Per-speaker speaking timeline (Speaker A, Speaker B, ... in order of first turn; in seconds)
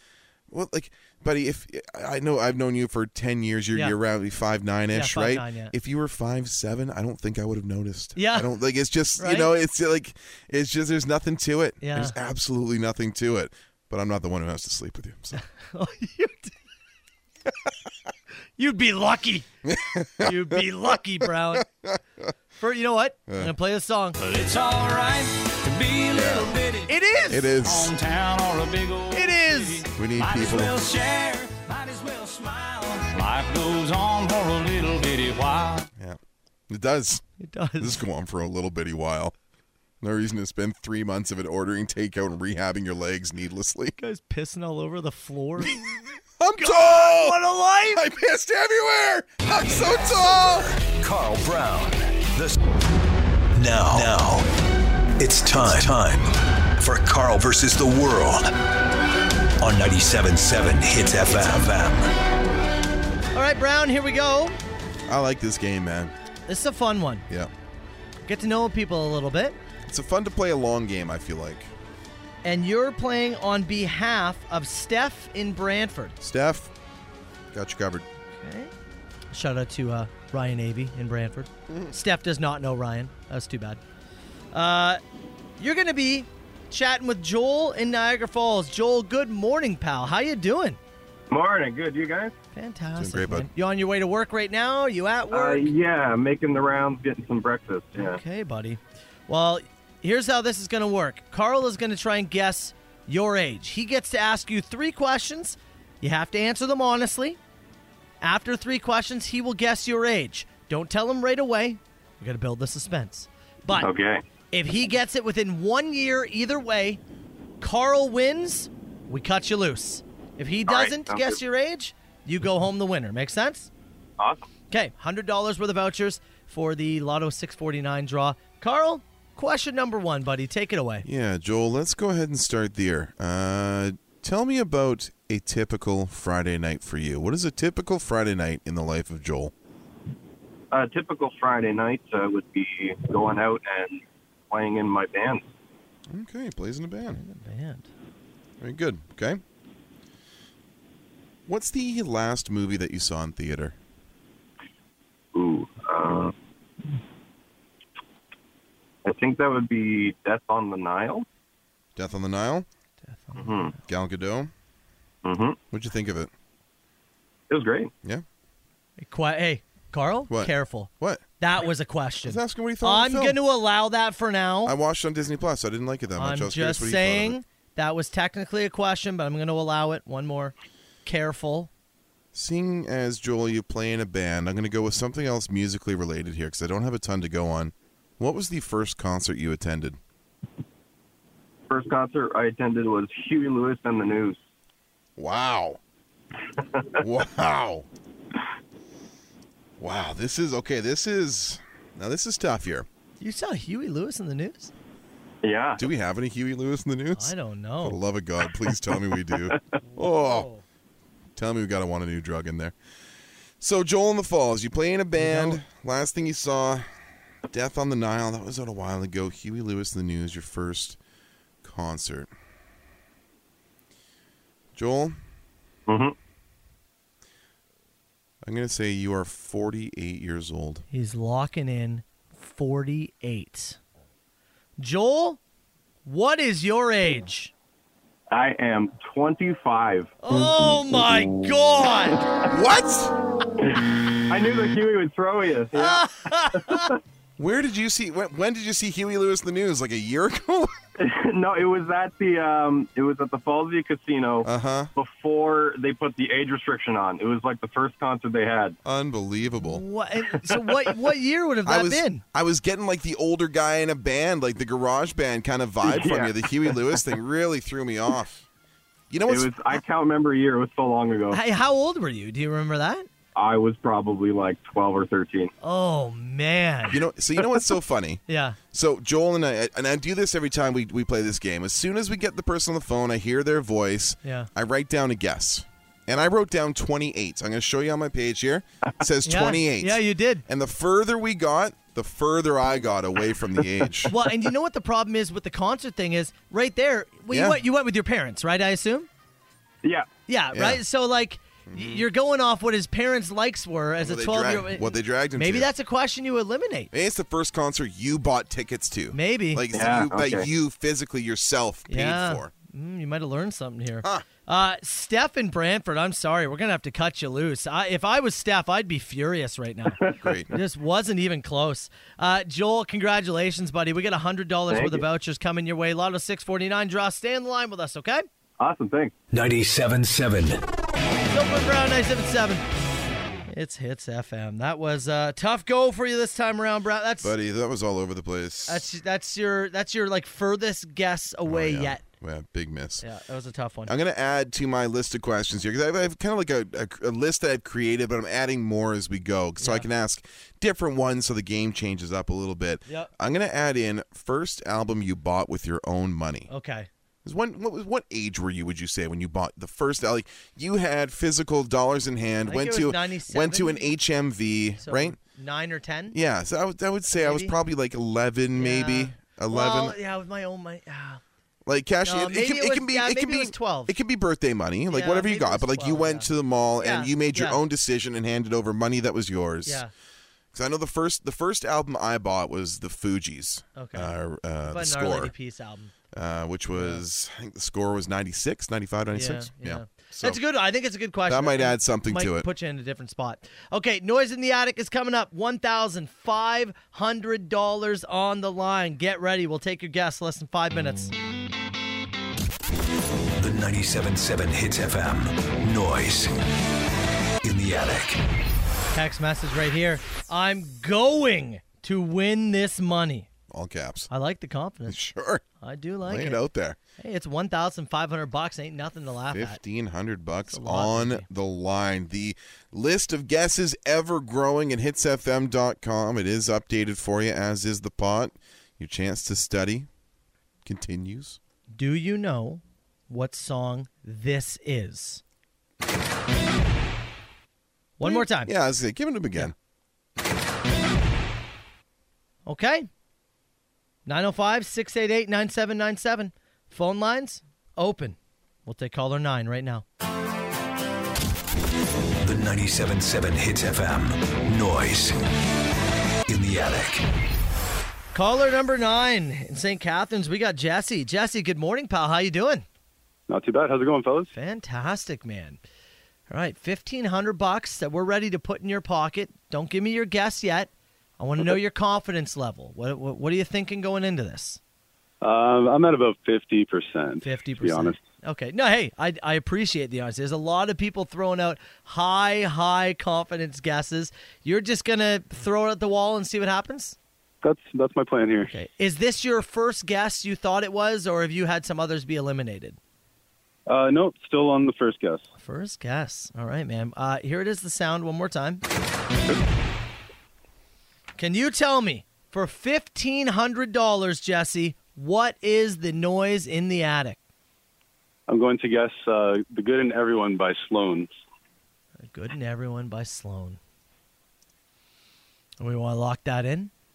Speaker A: 0.5-15.4, 19.6-20.7, 21.5-22.0, 26.1-26.5, 27.3-27.9, 29.9-30.7, 36.7-37.2, 37.8-39.3, 40.0-44.0, 45.6-47.4, 47.9-50.8, 65.1-66.1, 69.9-71.7, 76.2-76.7, 77.5-78.1, 81.7-81.9, 93.0-93.5, 131.1-139.5, 146.1-147.2, 148.6-149.4, 151.5-153.8, 162.0-162.7, 163.8-164.5, 165.7-166.3, 170.3-171.2, 172.2-173.4, 174.7-177.4, 182.3-190.0, 195.2-195.8, 197.0-197.9, 199.8-202.9, 205.8-210.5, 211.4-212.8, 213.6-216.9, 217.5-221.0, 221.6-222.3, 224.8-225.2, 228.4-230.8, 242.5-243.1, 247.4-250.8, 254.4-254.9, 258.9-259.8, 261.7-268.5, 269.1-269.8, 276.9-294.1, 297.3-297.6, 300.5-300.8, 301.7-302.1, 304.0-305.7, 306.9-312.5, 320.2-320.5, 337.2-338.9, 341.5-343.1, 343.9-356.5, 357.2-365.2, 366.1-370.0, 371.7-379.8, 380.5-385.3, 386.1-390.4, 391.3-392.5, 413.5-414.1, 414.9-415.4, 416.1-416.8, 419.3-429.9, 430.6-431.4, 438.0-439.5
Speaker B: 4.9-5.7, 8.2-8.5, 9.2-9.5, 11.8-12.2, 15.3-16.5, 18.6-19.5, 20.2-21.7, 22.6-24.2, 26.9-27.5, 29.1-29.9, 37.4-38.0, 44.0-45.8, 46.6-48.0, 63.3-64.6, 66.5-67.3, 68.2-69.6, 72.4-76.2, 78.4-78.7, 79.3-83.8, 84.5-85.0, 85.6-90.8, 92.5-95.7, 98.0-107.4, 108.2-113.9, 114.5-117.0, 117.6-123.7, 124.7-131.1, 147.1-147.9, 163.1-163.8, 169.0-174.8, 176.2-180.5, 181.1-181.7, 203.2-204.7, 207.2-208.0, 209.8-210.6, 215.2-215.6, 230.9-233.8, 234.8-235.4, 236.1-237.5, 240.2-242.3, 245.8-246.9, 259.6-262.2, 271.3-273.1, 275.6-277.0, 278.3-278.6, 284.2-284.5, 289.2-290.4, 294.1-299.1, 300.3-306.9, 309.1-309.6, 311.9-320.0, 320.5-328.2, 331.3-332.6, 333.5-337.3, 338.7-342.0, 343.0-343.9, 349.6-349.9, 356.5-356.9, 362.5-363.9, 364.8-366.2, 367.1-367.5, 368.6-371.2, 372.1-373.9, 374.9-376.3, 376.8-377.6, 383.8-384.1, 384.7-385.9, 386.7-387.0, 389.1-401.1, 408.9-413.3, 414.1-415.0, 415.6-416.4, 417.0-419.6, 420.5-421.3, 431.7-435.2, 438.0-438.5, 442.5-442.9, 444.1-449.8, 458.1-462.7, 464.4-465.6, 466.3-474.6, 477.2-487.0, 488.5-492.8, 495.4-498.6, 501.2-507.2, 512.0-513.6, 515.6-516.7
Speaker C: 24.2-35.9
Speaker D: 50.8-52.6, 53.5-54.5, 55.2-58.5, 59.6-62.1, 329.3-330.6, 403.4-406.3, 407.4-408.2, 452.2-455.2, 456.3-457.0
Speaker E: 91.3-92.3, 95.3-98.2, 113.7-114.2, 120.7-121.4, 124.2-124.5, 140.7-145.5, 155.3-156.3, 159.1-161.3, 163.3-163.8, 165.2-165.6, 167.5-167.9, 191.7-194.4, 205.4-205.8, 225.9-226.2, 238.3-240.2, 243.6-247.0, 251.0-258.8, 260.5-260.9, 265.8-267.0, 269.3-271.4, 273.4-275.5, 293.6-293.9, 309.7-310.5, 320.0-320.3, 324.7-325.1, 328.6-329.1
Speaker F: 463.3-464.3, 475.2-478.0, 487.4-488.5, 493.7-495.2, 508.3-511.1